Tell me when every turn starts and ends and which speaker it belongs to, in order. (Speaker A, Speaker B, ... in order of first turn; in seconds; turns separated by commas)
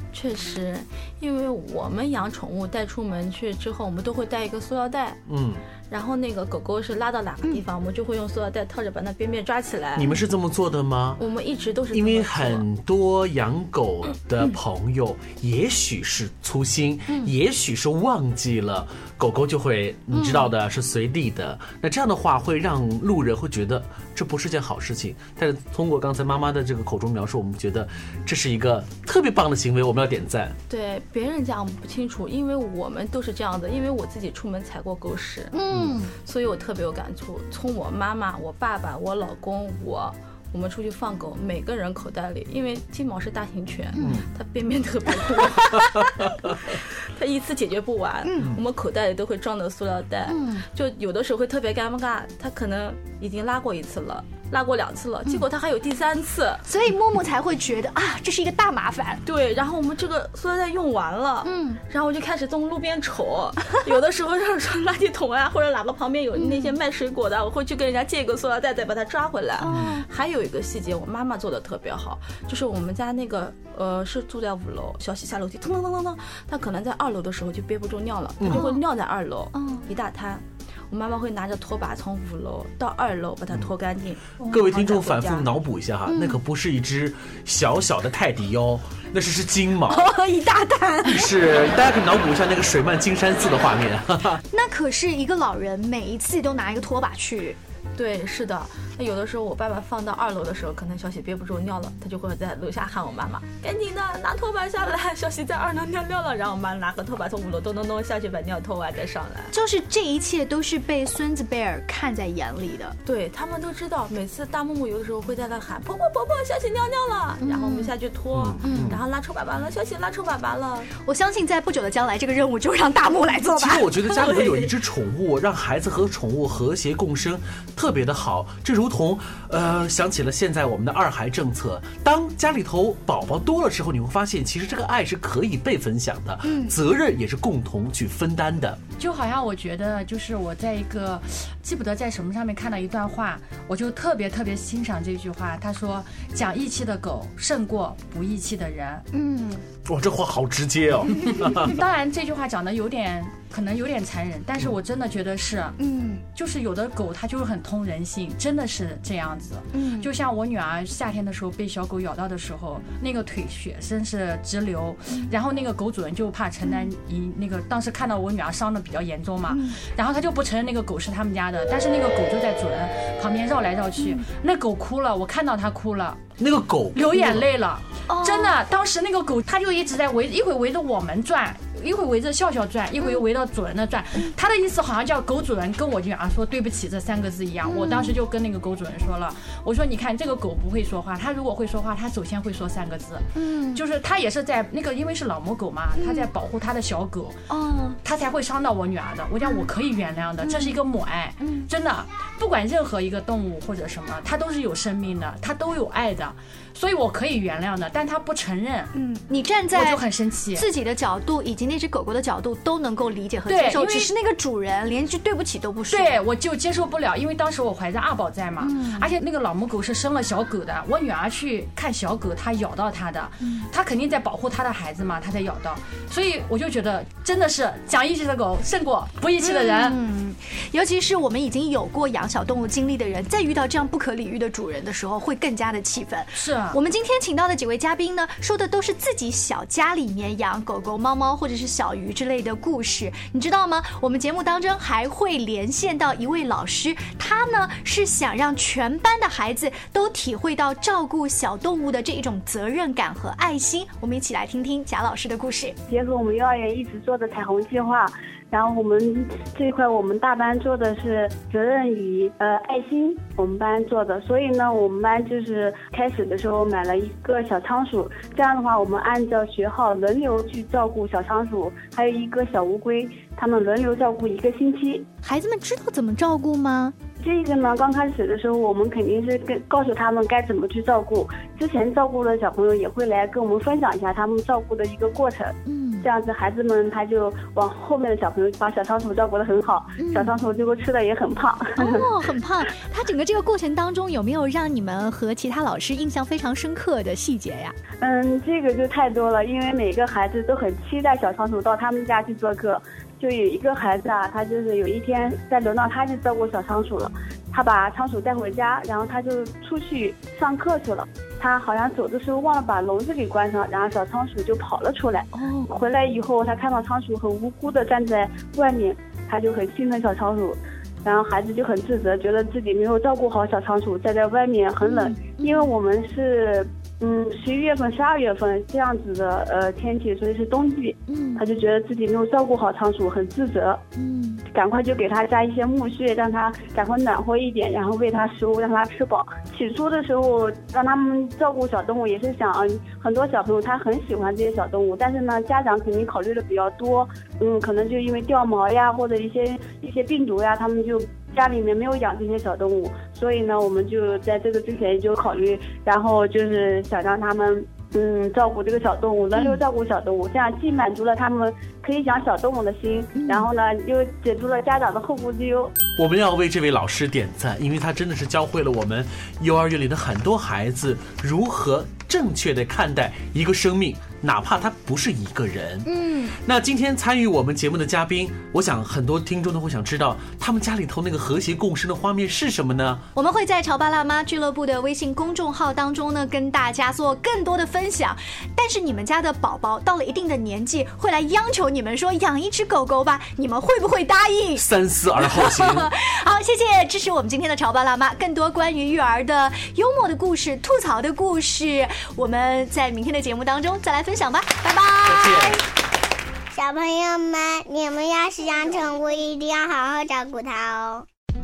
Speaker A: 0.1-5.2, Speaker B: 5.3-5.6, Speaker A: 5.9-10.2, Speaker B: 10.0-11.2, Speaker A: 11.2-12.7, Speaker B: 11.9-30.6, Speaker A: 30.7-56.6, Speaker C: 35.5-36.1, Speaker B: 35.7-36.0, Speaker B: 44.0-44.3, Speaker C: 48.2-48.5, Speaker C: 50.3-50.6, Speaker C: 56.6-59.2, Speaker A: 59.2-85.5, Speaker C: 61.5-61.8, Speaker C: 66.3-66.8, Speaker C: 69.6-70.1, Speaker B: 69.7-69.9, Speaker B: 78.4-78.7, Speaker C: 78.5-78.8, Speaker C: 79.5-79.9, Speaker B: 84.4-90.1, Speaker C: 86.1-86.4, Speaker C: 89.9-91.3, Speaker B: 91.1-94.4, Speaker C: 94.5-97.6, Speaker A: 98.0-109.5, Speaker C: 109.5-113.0, Speaker A: 113.0-120.9, Speaker C: 117.4-117.9, Speaker B: 118.3-119.0, Speaker C: 118.6-119.0, Speaker C: 121.0-124.3, Speaker B: 123.5-138.8, Speaker A: 124.2-124.6, Speaker C: 136.4-136.8, Speaker D: 139.0-149.1, Speaker C: 149.1-149.6, Speaker B: 149.9-151.8, Speaker D: 151.6-155.8, Speaker C: 155.8-156.2, Speaker D: 156.3-176.2, Speaker C: 159.7-160.1, Speaker C: 166.6-166.9, Speaker C: 169.5-169.8, Speaker C: 174.0-174.2, Speaker B: 176.4-177.5, Speaker D: 176.9-197.5, Speaker C: 178.1-178.6, Speaker C: 187.6-188.2, Speaker C: 193.3-193.8, Speaker C: 195.9-196.3, Speaker C: 197.5-198.0, Speaker D: 198.0-208.9, Speaker C: 199.4-199.7, Speaker C: 200.4-200.8, Speaker C: 201.4-201.7, Speaker C: 208.9-216.2, Speaker D: 209.7-210.7, Speaker D: 213.5-214.1, Speaker D: 215.9-230.0, Speaker C: 218.6-219.2, Speaker C: 229.4-255.8, Speaker D: 236.3-236.8, Speaker E: 255.9-275.1, Speaker C: 275.2-276.9, Speaker E: 277.2-292.1, Speaker C: 285.7-286.1, Speaker C: 290.0-290.3, Speaker C: 291.8-297.8, Speaker E: 298.0-333.8, Speaker C: 315.3-315.8, Speaker C: 324.8-325.7, Speaker C: 331.1-331.4, Speaker C: 334.0-334.4, Speaker E: 334.5-365.8, Speaker C: 363.2-363.5, Speaker B: 366.0-383.1, Speaker C: 375.9-376.4, Speaker C: 383.1-405.6, Speaker B: 394.6-395.9, Speaker B: 405.1-405.6, Speaker F: 406.5-411.1